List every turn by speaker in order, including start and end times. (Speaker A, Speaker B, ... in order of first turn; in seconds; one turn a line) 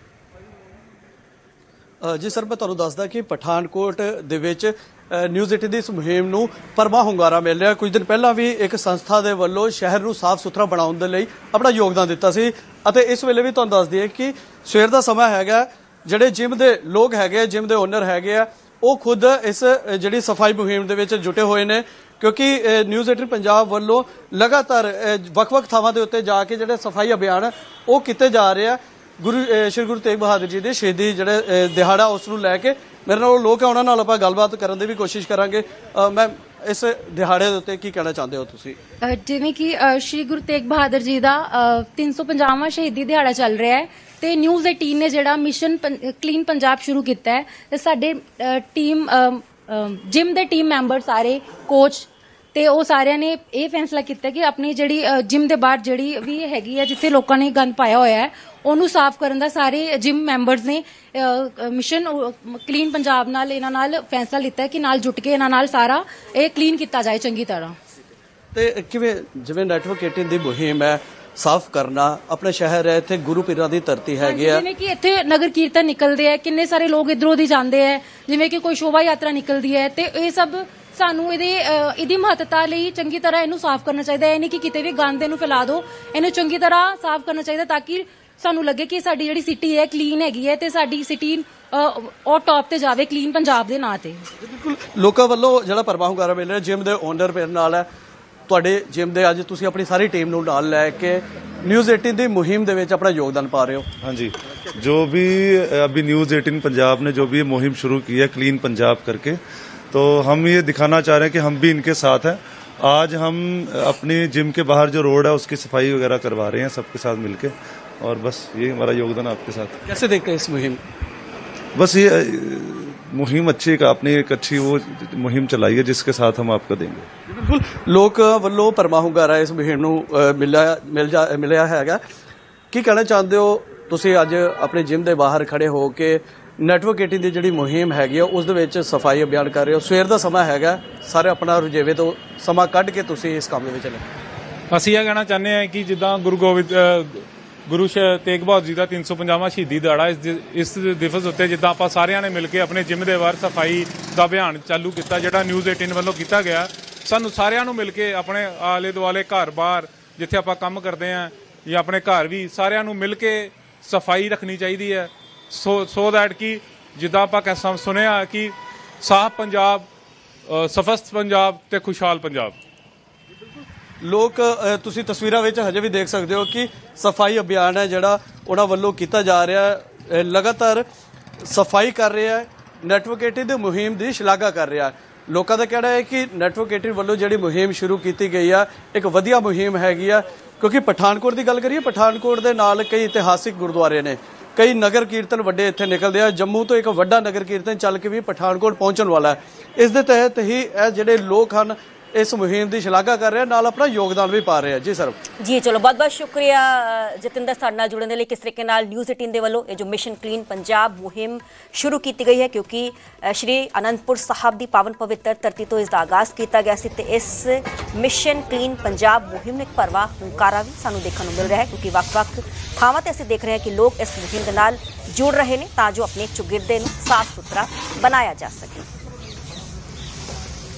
Speaker A: 2.0-38.8
Speaker B: 39.0-67.8
Speaker A: 68.5-74.6
Speaker B: 74.2-94.3
Speaker A: 94.4-97.9
Speaker A: 98.5-103.9
Speaker C: 104.0-109.4
Speaker C: 109.9-119.8
Speaker A: 119.9-120.8
Speaker C: 121.8-127.1
Speaker A: 127.3-132.0
Speaker A: 132.7-144.1
Speaker D: 144.7-169.9
Speaker D: 170.5-172.6
Speaker A: 174.0-180.8
Speaker A: 181.4-205.2
Speaker E: 205.4-228.9